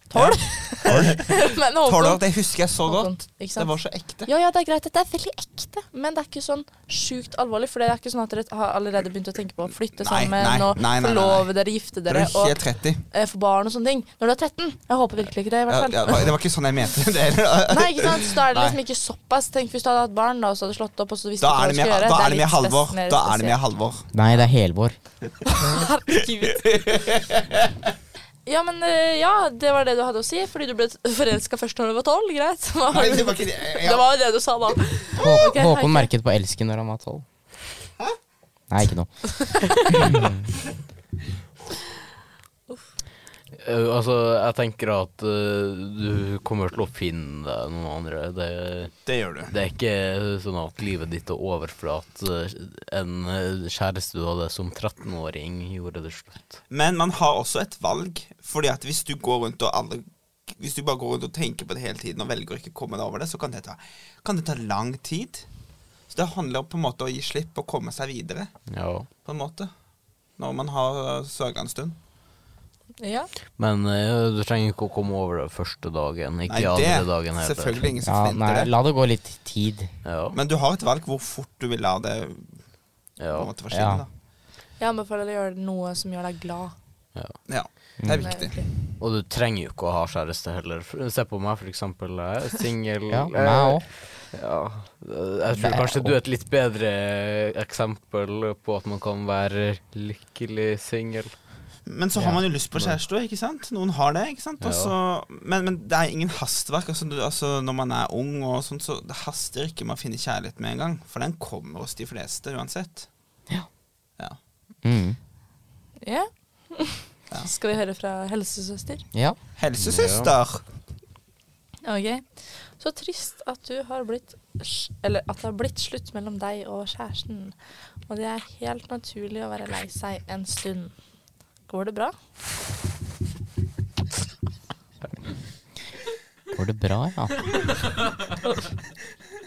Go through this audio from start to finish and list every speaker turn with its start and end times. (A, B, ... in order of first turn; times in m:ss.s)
0:00.1-0:02.2 A
0:00.1-0:04.3 B
0:02.8-0:03.7 A
0:04.3-0:12.6 A
0:10.0-0:11.5 B
0:12.1-0:13.0 B
0:13.1-0:16.3 A
0:15.7-0:18.8 B
0:17.7-0:23.6 A
0:21.4-0:24.1 B
0:24.1-0:25.0 C
0:25.4-0:26.8 A
0:26.5-0:27.7 B
0:28.5-0:36.1 A
0:32.9-0:34.1 B
0:35.1-0:37.2 C
0:38.7-0:40.5 C
0:43.6-0:56.6 D
0:49.1-0:49.5 B
0:56.7-1:05.5 B
1:06.1-1:08.5 B
1:08.7-1:09.1 D
1:09.2-1:09.7 B
1:10.4-1:12.0 B
1:13.0-1:13.3 A
1:13.6-1:17.9 D
1:16.5-1:18.7 B
1:18.0-1:19.9 C
1:20.0-1:20.4 D
1:20.3-1:22.6 B
1:23.2-1:23.5 D
1:23.3-1:24.1 B
1:23.7-1:24.0 C
1:24.8-1:26.8 A
1:27.5-1:28.6 B
1:28.0-1:28.3 C
1:28.2-1:28.7 A
1:29.0-1:41.4 D
1:33.1-1:33.9 C
1:35.5-1:36.2 C
1:41.9-1:53.1 B
1:42.2-1:43.0 D
1:44.6-1:44.9 D
1:54.8-1:55.2 C
1:56.0-1:59.0 A
1:59.6-2:00.6 B
1:59.8-2:00.3 D
2:01.8-2:11.0 A
2:11.7-2:12.2 A
2:16.5-2:17.4 C